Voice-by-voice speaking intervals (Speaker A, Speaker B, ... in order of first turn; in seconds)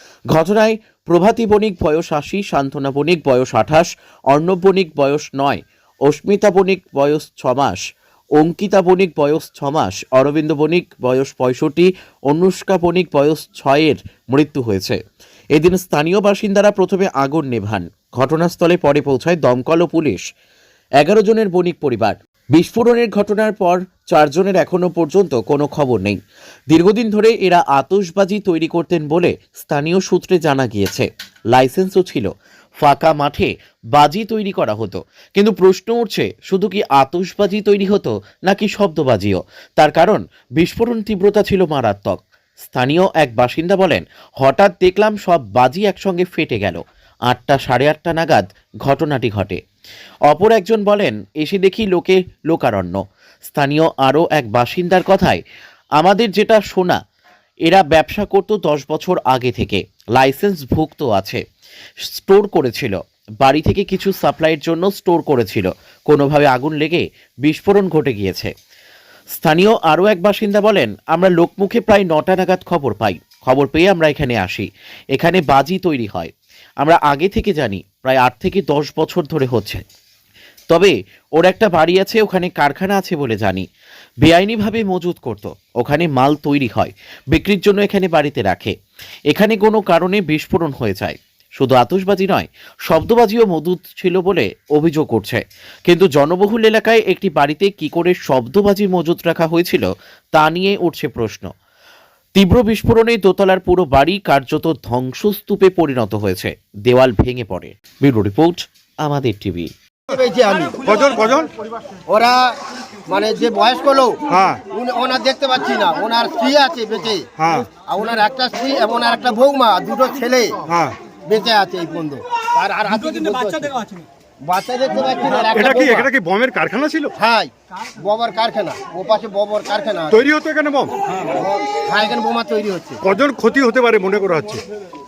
Speaker A: 0.3-7.8, 8.4-15.0, 15.5-20.2, 21.0-26.2, 26.7-49.6, 50.3-55.4, 56.0-57.0, 57.6-61.4, 62.1-68.5, 69.3-79.8, 80.7-83.6, 84.2-88.7, 89.3-101.5, 102.3-109.7
Speaker B: 110.1-110.8, 112.1-114.2, 114.7-117.3, 117.8-120.6, 121.2-123.8, 124.4-126.1, 127.2-130.2, 131.2-133.0
Speaker C: 110.8-111.5, 114.3-114.6, 117.4-117.7, 120.7-121.0, 125.5-127.1, 130.1-130.9, 133.0-134.6